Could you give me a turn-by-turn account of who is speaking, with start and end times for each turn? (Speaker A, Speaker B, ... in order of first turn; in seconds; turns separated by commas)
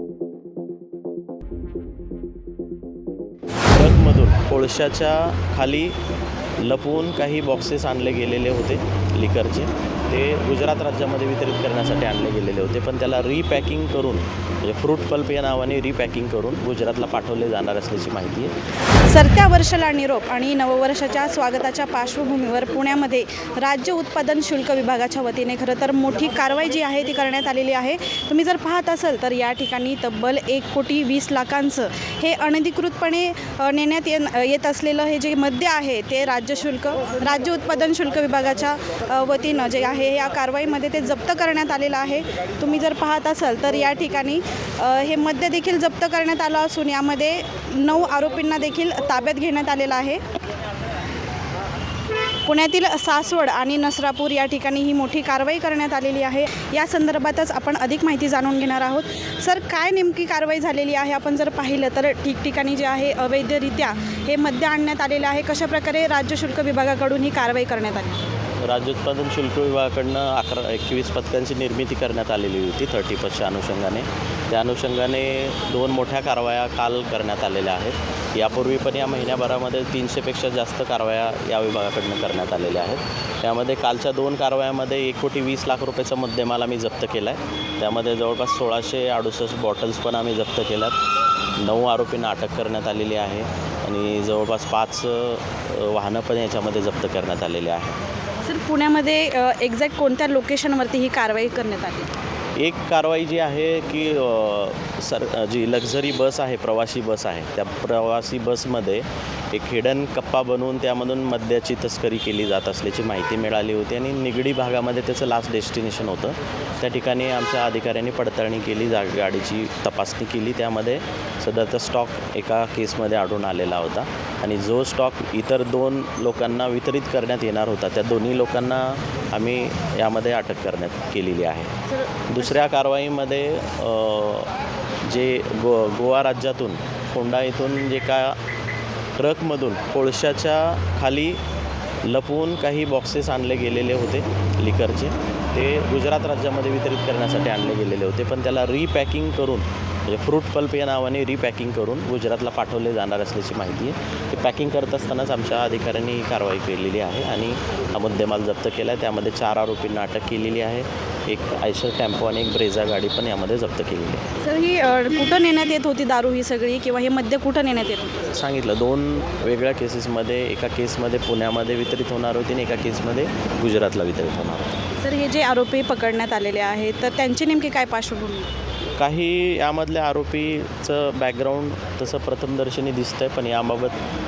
Speaker A: 3.7-6.0, Speaker A: 6.6-18.6, Speaker B: 19.0-50.2, Speaker B: 52.5-68.3, Speaker A: 68.6-91.0, Speaker A: 91.6-98.0, Speaker B: 98.5-102.1, Speaker A: 102.6-138.4, Speaker A: 139.2-141.4, Speaker A: 142.0-164.3, Speaker B: 164.4-168.3, Speaker A: 168.3-174.8, Speaker B: 175.0-178.5, Speaker A: 179.0-184.0